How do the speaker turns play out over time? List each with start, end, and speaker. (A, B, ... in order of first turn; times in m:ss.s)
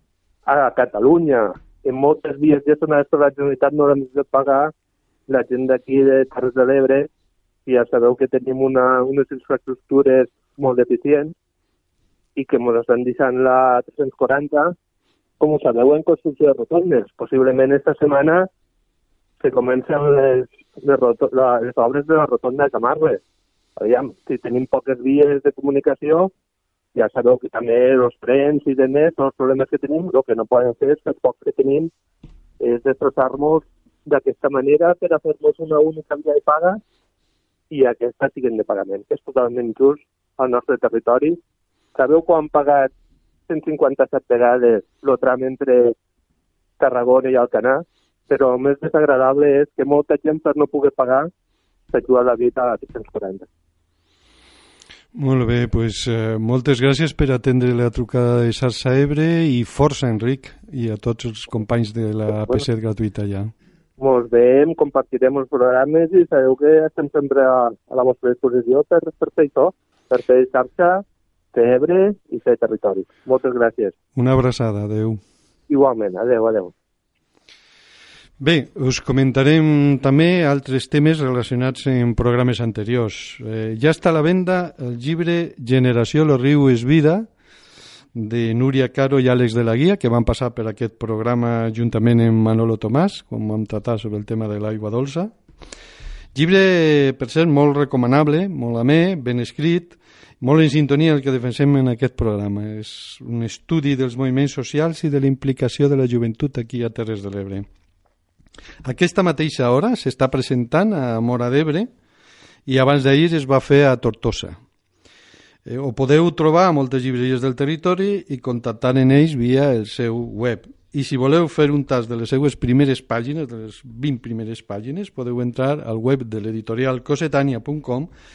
0:00.5-0:04.7 A
0:05.3-0:07.1 A
0:07.7-0:11.3 A
0:12.4-0:14.7 A
0:15.4-0:18.5 A
0:19.4-0:23.2 A
0:23.8-0:26.3 A
0:27.0-0:31.9 A
0:32.6-0:36.8 A
0:37.7-0:41.4 A
0:42.0-0:42.9 A
0:43.5-0:46.0 A
0:46.8-0:51.3 A
0:51.9-0:53.5 A
0:55.1-1:03.5 B
1:04.0-1:14.0 A
1:14.2-1:15.2 B
1:15.7-1:16.7 A
1:18.4-1:27.3 B
1:28.1-1:35.3 B
1:36.3-1:47.7 B
1:48.8-1:51.9 B
1:52.7-1:54.6 B
1:55.7-2:08.1 B